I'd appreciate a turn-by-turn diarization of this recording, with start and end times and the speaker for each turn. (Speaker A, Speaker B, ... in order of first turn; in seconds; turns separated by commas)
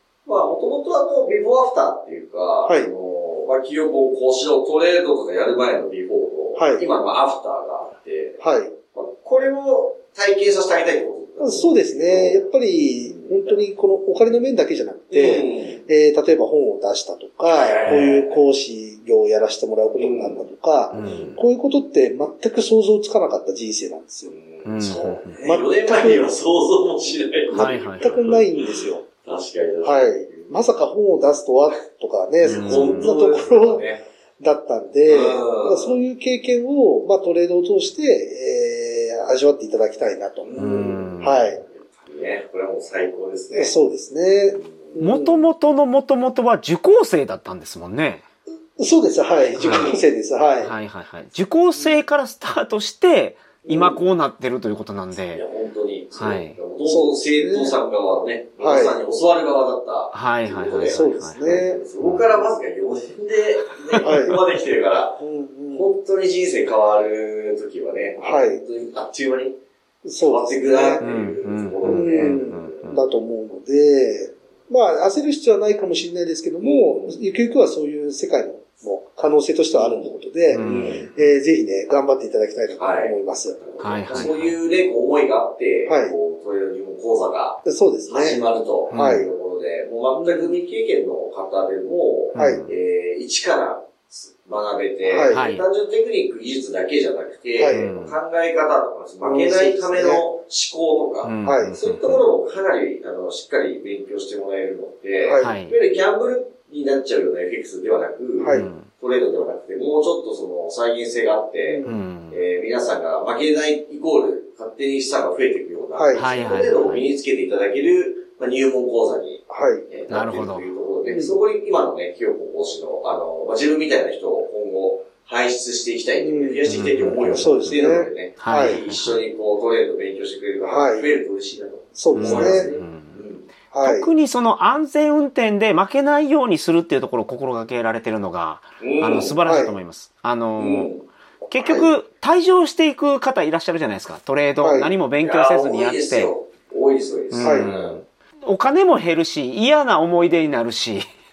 Speaker A: 0.3-8.4, Speaker B: 2.7-2.9, Speaker B: 6.6-6.8, Speaker B: 8.4-8.7, Speaker A: 8.9-12.5, Speaker B: 11.4-24.3, Speaker A: 13.0-13.7, Speaker A: 15.1-15.8, Speaker A: 17.5-18.4, Speaker A: 20.0-21.4, Speaker C: 20.9-21.3, Speaker A: 24.3-30.6, Speaker C: 24.6-25.4, Speaker B: 25.4-26.3, Speaker B: 27.5-29.0, Speaker C: 27.6-28.2, Speaker B: 29.8-33.9, Speaker A: 32.4-34.0, Speaker C: 32.5-33.1, Speaker B: 34.4-40.5, Speaker A: 35.1-36.0, Speaker A: 40.4-43.8, Speaker C: 40.6-41.5, Speaker B: 41.2-41.6, Speaker B: 43.5-45.5, Speaker A: 44.5-45.0, Speaker C: 45.0-48.2, Speaker B: 48.8-50.7, Speaker C: 49.5-49.9, Speaker A: 49.5-50.0, Speaker C: 50.6-55.4, Speaker A: 51.8-52.0, Speaker A: 53.6-54.0, Speaker A: 55.3-65.2, Speaker C: 56.1-56.6, Speaker B: 56.9-57.8, Speaker B: 58.6-59.0, Speaker C: 60.1-62.2, Speaker B: 60.9-61.8, Speaker C: 63.9-64.2, Speaker B: 64.0-64.4, Speaker B: 65.2-65.9, Speaker A: 65.7-69.6, Speaker B: 68.2-68.6, Speaker B: 70.0-71.1, Speaker A: 70.2-72.9, Speaker C: 71.0-73.0, Speaker B: 71.9-83.6, Speaker A: 76.6-77.2, Speaker A: 79.8-81.1, Speaker C: 80.5-81.3, Speaker A: 82.8-133.5, Speaker C: 83.8-84.6, Speaker B: 85.9-86.2, Speaker B: 87.7-88.4, Speaker C: 88.9-89.3, Speaker B: 89.0-89.3, Speaker B: 90.1-90.6, Speaker C: 92.3-92.7, Speaker B: 92.4-92.6, Speaker B: 95.0-95.5, Speaker C: 95.3-95.7, Speaker B: 97.6-97.9, Speaker C: 97.7-98.2, Speaker B: 99.2-100.2, Speaker C: 101.2-102.2, Speaker B: 101.5-101.8, Speaker B: 105.2-105.6, Speaker C: 105.4-105.8, Speaker B: 108.4-108.7, Speaker C: 108.5-108.9, Speaker B: 111.7-112.0, Speaker C: 111.8-112.4, Speaker B: 115.9-116.3, Speaker C: 116.2-117.1, Speaker B: 119.5-119.8, Speaker C: 120.1-120.7, Speaker B: 121.1-121.4, Speaker B: 126.2-128.8, Speaker C: 126.7-127.8, Speaker C: 128.4-129.2, Speaker B: 130.6-131.1, Speaker B: 131.9-132.7, Speaker C: 132.2-133.2, Speaker B: 133.7-134.1, Speaker C: 133.8-140.9, Speaker A: 138.8-139.3, Speaker B: 139.4-139.8, Speaker A: 140.6-141.1, Speaker C: 141.5-146.3, Speaker B: 141.6-141.9, Speaker B: 144.6-145.0, Speaker A: 145.2-148.0, Speaker C: 147.3-151.1, Speaker B: 147.4-147.7